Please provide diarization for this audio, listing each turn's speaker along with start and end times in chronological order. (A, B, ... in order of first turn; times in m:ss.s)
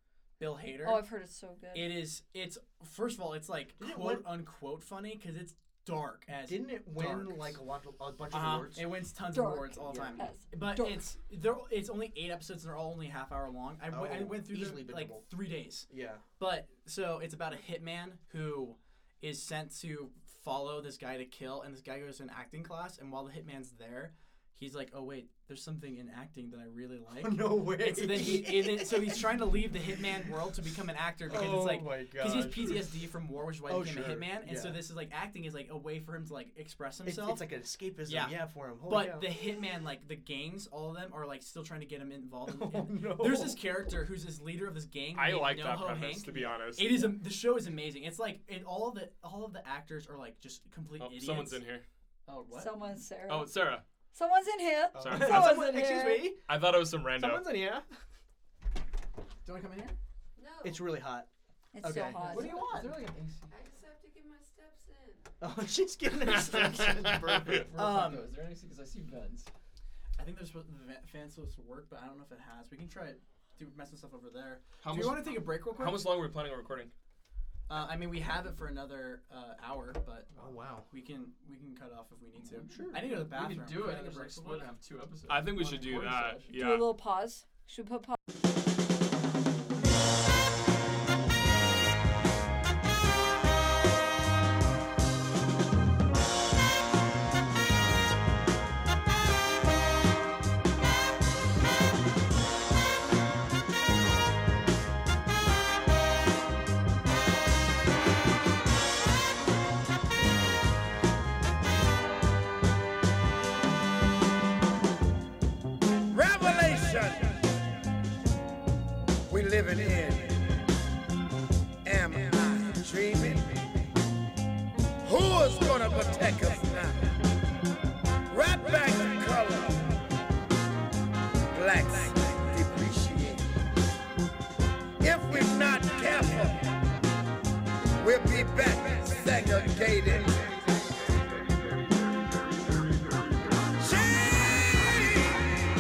0:00.4-0:01.1 A
0:00.8-0:02.1 B
0:01.7-0:07.6 A
0:03.8-0:04.4 C
0:06.3-0:08.9 C
0:08.3-0:37.4 A
0:09.3-0:11.1 B
0:09.8-0:10.3 C
0:13.9-0:15.3 C
0:15.9-0:16.2 C
0:27.1-0:30.3 C
0:31.2-0:33.1 C
0:33.6-0:34.8 C
0:37.0-0:39.3 C
0:38.1-0:51.6 A
0:42.5-0:44.0 C
0:45.1-0:47.2 D
0:51.0-0:51.8 D
0:52.3-0:52.7 A
0:52.5-0:53.5 B
0:53.3-0:53.8 D
0:54.1-0:56.3 B
0:54.9-0:56.5 C
0:55.0-0:55.6 D
0:56.5-0:57.6 D
0:57.1-0:57.9 C
0:59.4-1:00.0 A
1:00.4-1:01.0 E
1:00.6-1:01.3 C
1:01.7-1:02.8 B
1:01.8-1:02.2 C
1:02.2-1:03.1 A
1:02.2-1:03.5 F
1:03.5-1:05.3 E
1:05.4-1:07.7 C
1:06.2-1:07.6 D
1:07.4-1:09.5 F
1:07.8-1:08.4 A
1:10.2-1:16.2 A
1:14.8-1:16.9 D
1:17.7-1:20.4 A
1:20.4-1:20.9 C
1:20.9-1:24.7 A
1:22.7-1:23.1 C
1:22.7-1:26.5 F
1:25.3-1:27.0 D
1:26.5-1:28.2 B
1:56.1-1:57.4 G
1:59.3-2:00.5 G
2:01.8-2:03.6 G
2:05.0-2:07.1 G
2:08.3-2:09.9 G
2:11.5-2:13.6 G
2:15.0-2:16.6 G
2:18.0-2:20.6 G
2:23.8-2:25.6 G